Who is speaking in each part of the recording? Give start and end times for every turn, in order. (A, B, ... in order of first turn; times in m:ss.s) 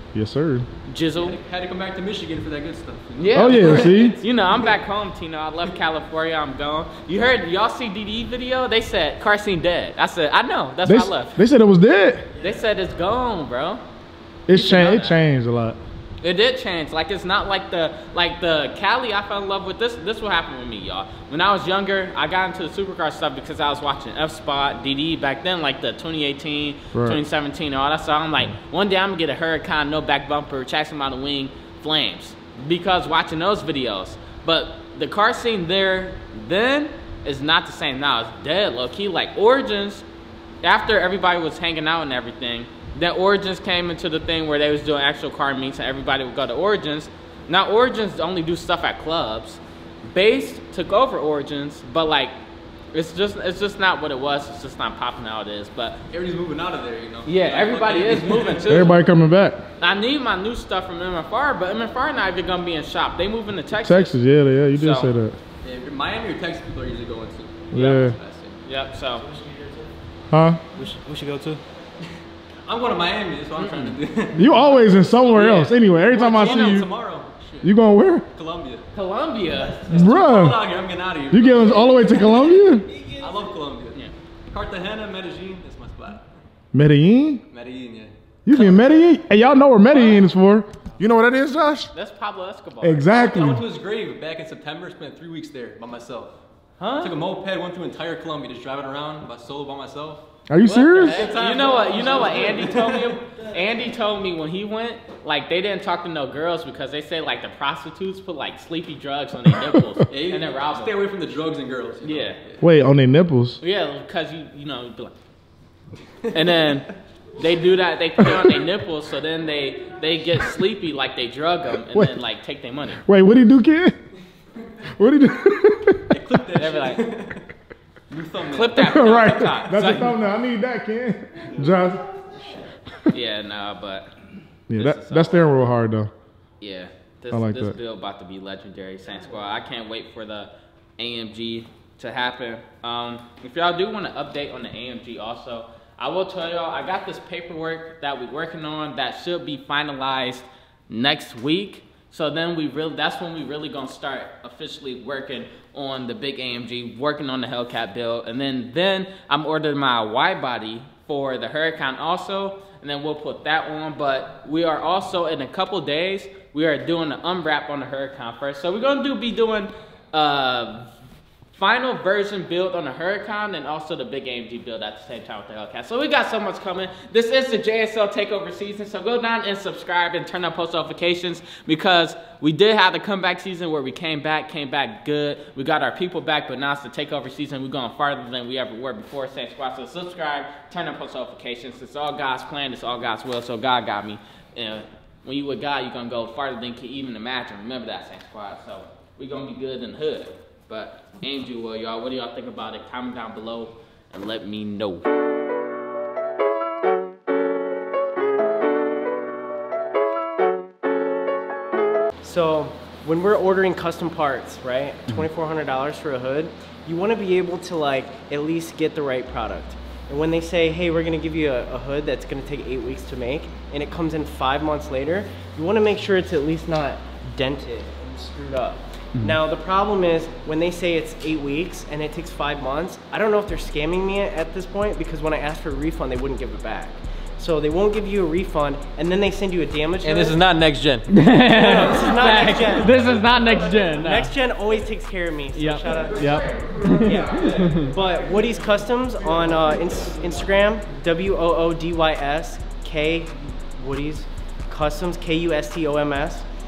0:00.1-0:00.7 A
0:00.9-0:01.4 B
0:01.1-0:04.1 C
0:03.2-0:11.4 B
0:03.3-0:04.2 A
0:10.8-0:12.3 A
0:12.4-0:13.8 B
0:14.5-0:15.8 A
0:14.5-0:15.2 B
0:16.2-0:40.0 B
0:26.9-0:27.2 A
0:40.6-0:52.3 B
0:52.9-0:56.0 B
0:56.1-0:58.9 C
0:57.2-0:59.0 B
0:58.7-0:59.6 A
0:59.8-1:04.1 B
1:03.7-1:05.4 A
1:04.7-1:05.1 B
1:05.6-1:08.6 C
1:07.7-1:08.2 A
1:08.6-1:09.2 B
1:09.2-1:09.9 D
1:10.3-1:10.6 A
1:10.7-1:11.6 D
1:12.6-1:14.5 C
1:13.6-1:14.0 B
1:14.3-1:16.9 A
1:15.3-1:16.8 B
1:15.4-1:17.7 C
1:17.6-1:18.3 A
1:18.3-1:18.9 C
1:18.9-1:19.8 B
1:19.5-1:20.2 D
1:19.9-1:20.6 A
1:19.9-1:22.2 C
1:21.3-1:22.9 A
1:21.7-1:23.5 D
1:23.2-1:26.3 C
1:26.7-1:27.4 A
1:27.5-1:28.1 C
1:28.4-1:31.9 A
1:29.9-1:30.2 C
1:31.9-1:33.1 B
1:32.8-1:33.7 A
1:33.1-1:36.4 C
1:36.8-1:37.2 B
1:37.0-1:40.3 C
1:40.5-1:41.3 A
1:40.6-1:51.0 B
1:41.0-1:43.2 C
1:42.1-1:43.9 D
1:49.5-1:50.0 A
1:50.1-1:52.6 C
1:52.0-1:52.4 B
1:52.6-1:53.6 A
1:53.6-1:55.1 B
1:56.3-2:03.0 B
1:58.2-1:58.6 A
2:01.9-2:02.2 A
2:03.0-2:04.0 A
2:04.9-2:06.1 A
2:06.1-2:07.5 C
2:06.6-2:07.1 B
2:08.1-2:09.2 C
2:08.5-2:10.1 B
2:08.8-2:12.0 A
2:12.3-2:12.7 C
2:13.1-2:14.1 B
2:14.7-2:16.1 A
2:14.7-2:15.5 B
2:16.6-2:50.9 B
2:17.3-2:17.8 A
2:51.5-3:25.0 B
3:32.2-4:00.4 E
3:49.1-3:49.4 B
4:00.0-4:02.9 C
4:01.1-4:04.3 B
4:01.4-4:16.4 E
4:05.5-4:07.8 B
4:05.8-4:10.6 A
4:07.3-4:07.7 C